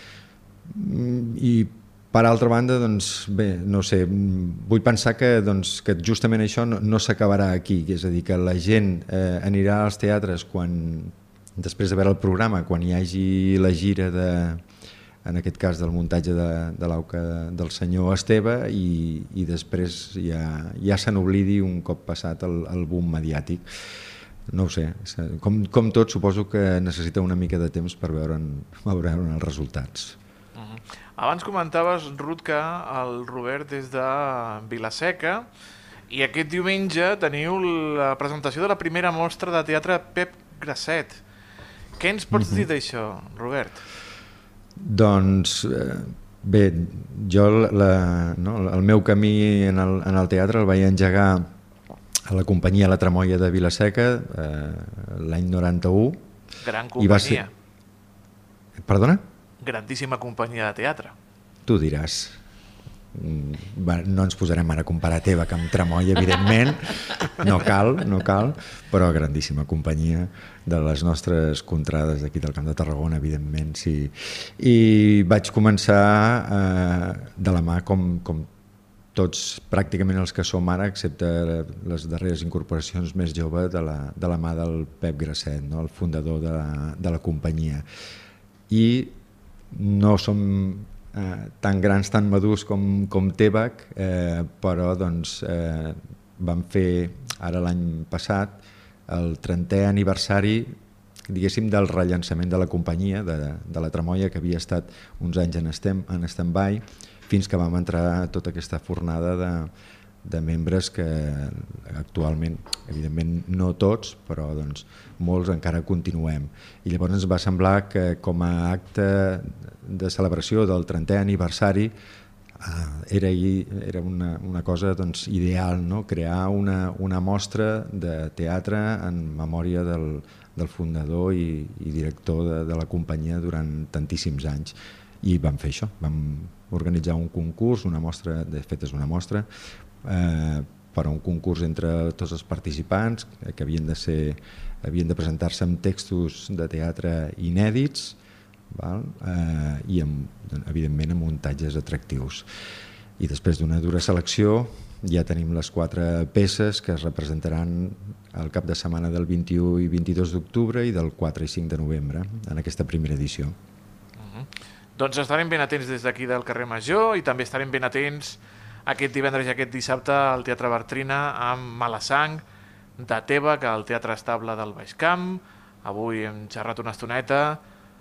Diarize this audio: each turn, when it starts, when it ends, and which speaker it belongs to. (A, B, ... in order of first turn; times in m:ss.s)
0:00.7-0:14.6 A
0:15.2-0:23.7 A
0:24.5-0:30.2 A
0:30.6-0:35.5 B
0:36.1-0:41.2 B
0:42.0-0:43.8 B
0:42.3-0:42.7 A
0:44.8-0:51.5 A
0:52.3-0:56.2 A
0:56.6-0:57.5 B
0:57.0-0:57.4 A
0:58.8-0:59.2 A
0:59.6-1:01.1 B
1:01.6-1:02.4 A
1:03.1-1:18.5 A
1:19.2-1:27.8 A
1:28.7-1:29.2 A
1:29.7-1:40.8 A
1:41.3-1:49.7 A
1:50.2-2:01.9 A
2:02.6-2:19.5 A
2:20.0-2:28.2 A
2:28.7-2:32.5 A
2:33.2-2:43.6 A
2:44.2-2:52.4 B
2:53.0-2:57.6 B